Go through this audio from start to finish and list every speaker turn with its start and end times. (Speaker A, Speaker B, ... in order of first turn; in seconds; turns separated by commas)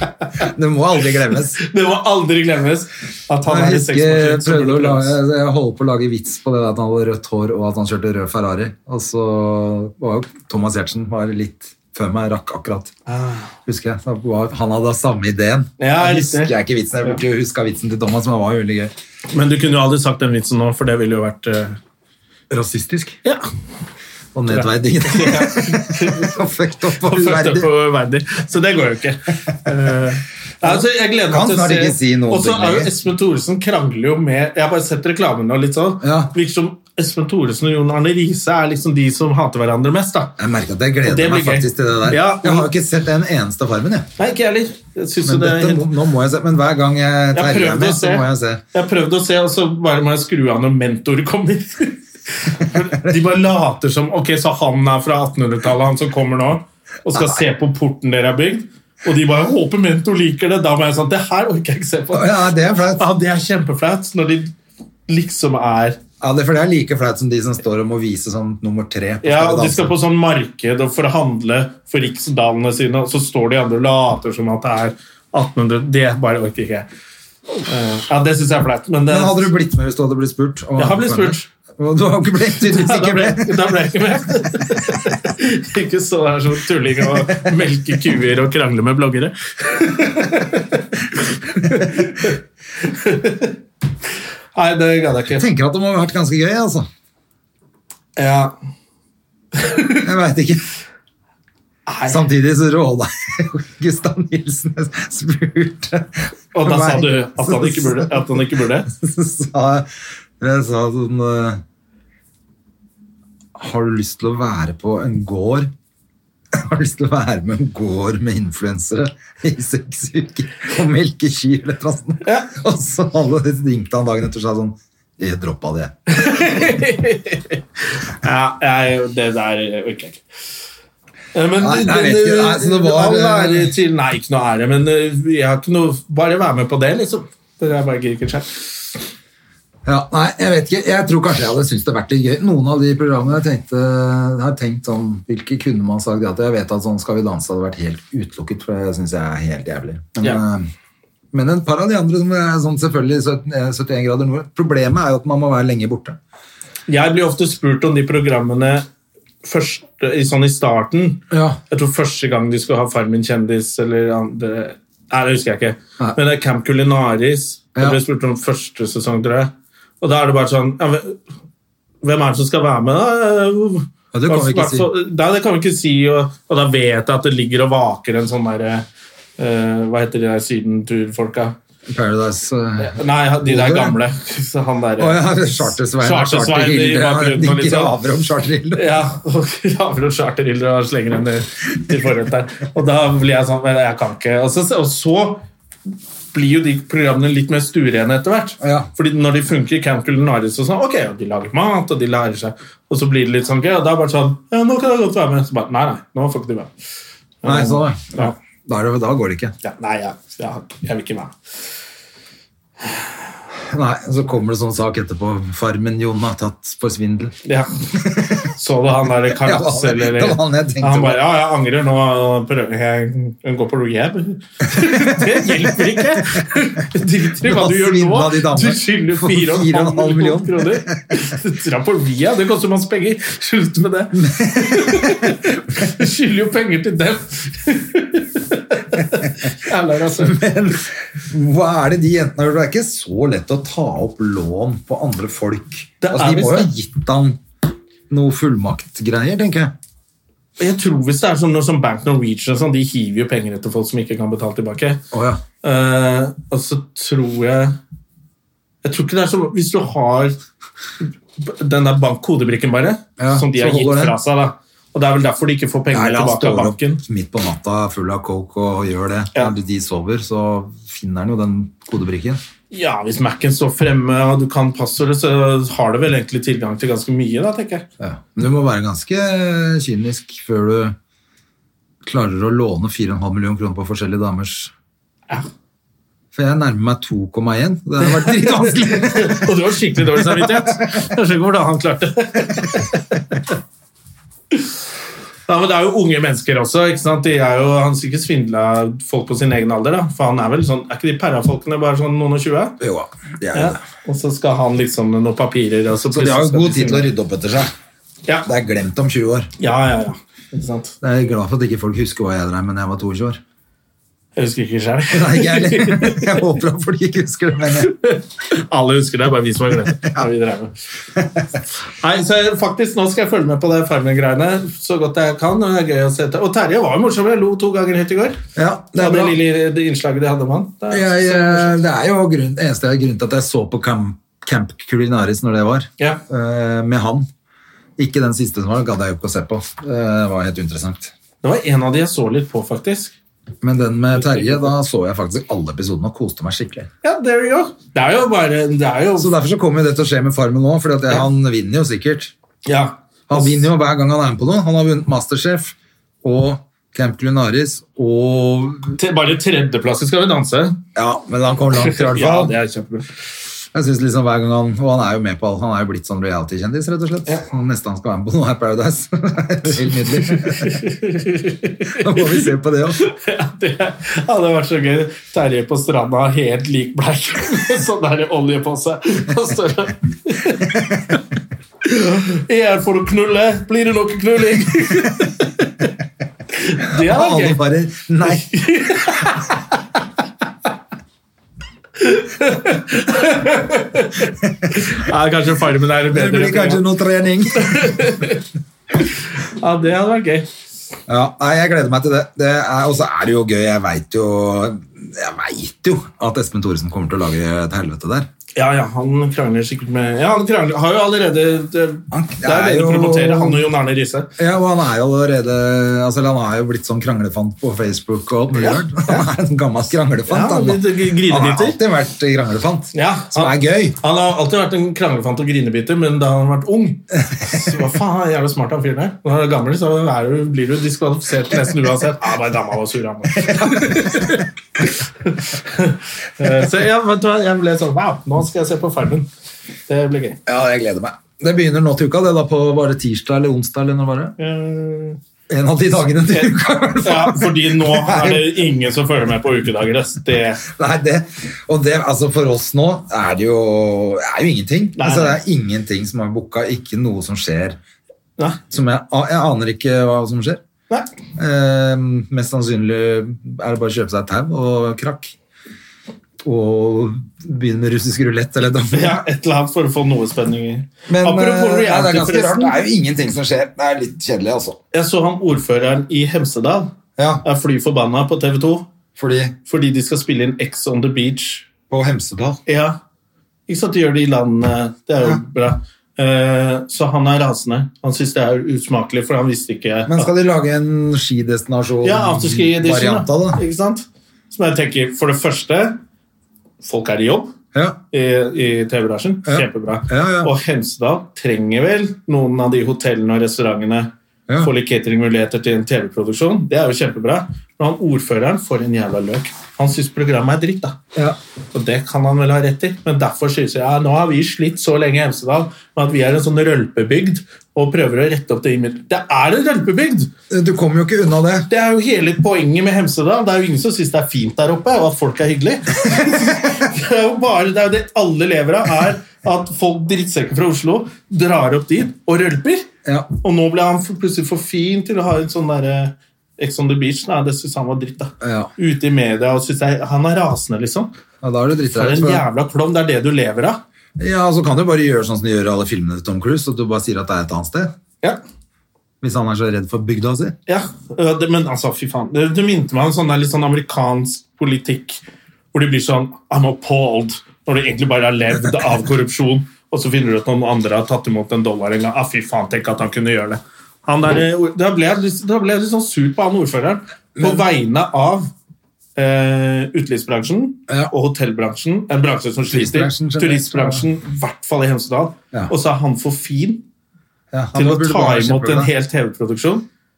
Speaker A: 0.4-1.6, Speaker B: 1.6-5.2, Speaker A: 3.5-12.9, Speaker B: 13.1-13.5, Speaker A: 13.7-18.9, Speaker B: 15.8-17.2, Speaker B: 19.3-21.8, Speaker A: 22.5-23.2, Speaker A: 24.3-27.7, Speaker B: 24.5-26.4, Speaker B: 27.0-40.4, Speaker A: 30.6-32.9, Speaker A: 36.0-36.3, Speaker A: 40.4-44.1, Speaker B: 41.0-42.7, Speaker B: 44.2-45.9, Speaker A: 45.2-48.6, Speaker B: 47.3-62.4, Speaker A: 52.8-53.2, Speaker A: 62.1-63.1, Speaker B: 63.0-64.5, Speaker B: 65.1-66.0, Speaker A: 66.2-69.9, Speaker B: 69.2-76.9, Speaker B: 77.6-79.5, Speaker A: 79.1-83.7, Speaker B: 80.8-81.5, Speaker B: 82.6-93.6, Speaker B: 94.5-95.4, Speaker A: 95.3-96.9, Speaker B: 98.2-98.5, Speaker B: 99.5-100.0, Speaker A: 100.0-100.6, Speaker B: 101.9-102.2, Speaker A: 102.1-109.9, Speaker B: 106.5-108.9, Speaker A: 110.4-111.6, Speaker A: 113.6-115.7, Speaker A: 116.5-126.0, Speaker B: 122.2-122.5, Speaker B: 126.1-127.6, Speaker B: 128.2-130.2, Speaker B: 131.3-138.6, Speaker A: 131.6-133.7, Speaker A: 139.8-150.7, Speaker A: 151.3-156.2, Speaker B: 156.9-158.8, Speaker B: 159.4-171.2, Speaker A: 161.3-161.6, Speaker B: 172.0-178.9, Speaker A: 174.1-174.9, Speaker B: 179.4-181.6, Speaker A: 181.9-184.0, Speaker B: 182.8-185.2, Speaker A: 185.0-189.0, Speaker B: 186.0-187.9, Speaker B: 188.8-195.4, Speaker B: 196.3-206.7, Speaker A: 198.6-198.9, Speaker B: 207.4-208.3, Speaker A: 207.4-209.6, Speaker B: 209.6-211.3, Speaker A: 213.6-217.3, Speaker B: 217.4-217.7, Speaker A: 218.0-218.4, Speaker B: 218.3-240.4, Speaker A: 219.3-221.2, Speaker A: 224.8-226.3, Speaker A: 227.4-231.2, Speaker A: 234.1-235.4, Speaker A: 240.2-247.4, Speaker B: 246.0-246.7, Speaker A: 248.1-249.7, Speaker B: 250.6-255.0, Speaker A: 255.1-255.4, Speaker B: 255.6-257.8, Speaker B: 258.8-260.4, Speaker B: 261.4-267.0, Speaker A: 263.2-264.2, Speaker A: 265.9-272.4, Speaker B: 272.7-277.9, Speaker A: 278.0-281.0, Speaker A: 282.0-284.7, Speaker A: 286.3-291.0, Speaker B: 288.2-293.2, Speaker B: 295.5-302.8, Speaker A: 302.8-303.8, Speaker B: 303.5-307.1, Speaker A: 306.1-307.7, Speaker A: 308.4-309.5, Speaker B: 309.6-311.0, Speaker A: 311.0-313.4, Speaker B: 314.4-316.4, Speaker A: 315.1-317.9, Speaker B: 317.8-320.7, Speaker A: 321.2-321.4, Speaker B: 322.0-328.4, Speaker A: 328.6-329.4, Speaker B: 329.0-331.8, Speaker A: 330.9-337.3, Speaker A: 338.0-341.1, Speaker B: 341.4-343.1, Speaker A: 343.6-346.9, Speaker B: 344.1-344.7, Speaker B: 347.0-349.3, Speaker A: 349.2-352.3, Speaker B: 352.7-353.7, Speaker A: 353.3-359.0, Speaker B: 359.0-360.8, Speaker A: 360.9-362.6, Speaker B: 361.8-363.1, Speaker A: 363.7-370.8, Speaker B: 370.2-381.2, Speaker A: 372.0-373.0, Speaker A: 380.7-381.0, Speaker B: 381.8-385.9, Speaker B: 386.5-387.6, Speaker A: 386.9-388.5, Speaker B: 388.2-389.8, Speaker B: 392.0-396.8, Speaker A: 396.1-398.1, Speaker B: 397.6-398.4, Speaker B: 399.0-400.5, Speaker A: 401.1-408.3, Speaker B: 408.6-414.3, Speaker A: 412.1-413.7, Speaker A: 414.4-424.0, Speaker B: 418.5-419.3, Speaker B: 420.3-421.8, Speaker B: 422.9-439.3, Speaker A: 433.4-434.4, Speaker B: 439.9-440.4, Speaker A: 440.5-444.4, Speaker B: 444.4-445.2, Speaker A: 445.5-448.6, Speaker B: 447.0-450.6, Speaker A: 450.6-457.8, Speaker B: 455.0-455.4, Speaker A: 458.7-460.6, Speaker A: 461.4-465.4, Speaker A: 466.4-469.2, Speaker B: 468.9-472.8, Speaker A: 471.1-474.8, Speaker B: 474.9-476.9, Speaker A: 477.2-477.4, Speaker B: 477.4-478.9, Speaker A: 479.2-479.6, Speaker B: 479.7-481.7, Speaker A: 481.9-482.6, Speaker B: 482.7-483.0, Speaker B: 483.7-490.3, Speaker A: 490.1-493.6, Speaker B: 492.0-496.0, Speaker B: 496.8-497.5, Speaker B: 498.1-511.0, Speaker A: 499.5-500.5, Speaker B: 511.7-520.3, Speaker A: 520.5-521.7, Speaker B: 521.7-532.9, Speaker A: 533.0-533.3, Speaker B: 533.4-541.1, Speaker A: 538.4-538.7, Speaker A: 541.4-542.5, Speaker B: 541.9-543.8, Speaker A: 544.2-547.9, Speaker A: 549.2-550.6, Speaker B: 550.7-555.2, Speaker B: 555.7-568.5, Speaker A: 567.4-567.6, Speaker B: 569.2-576.8, Speaker A: 572.7-574.1, Speaker A: 577.5-578.9, Speaker B: 577.8-579.9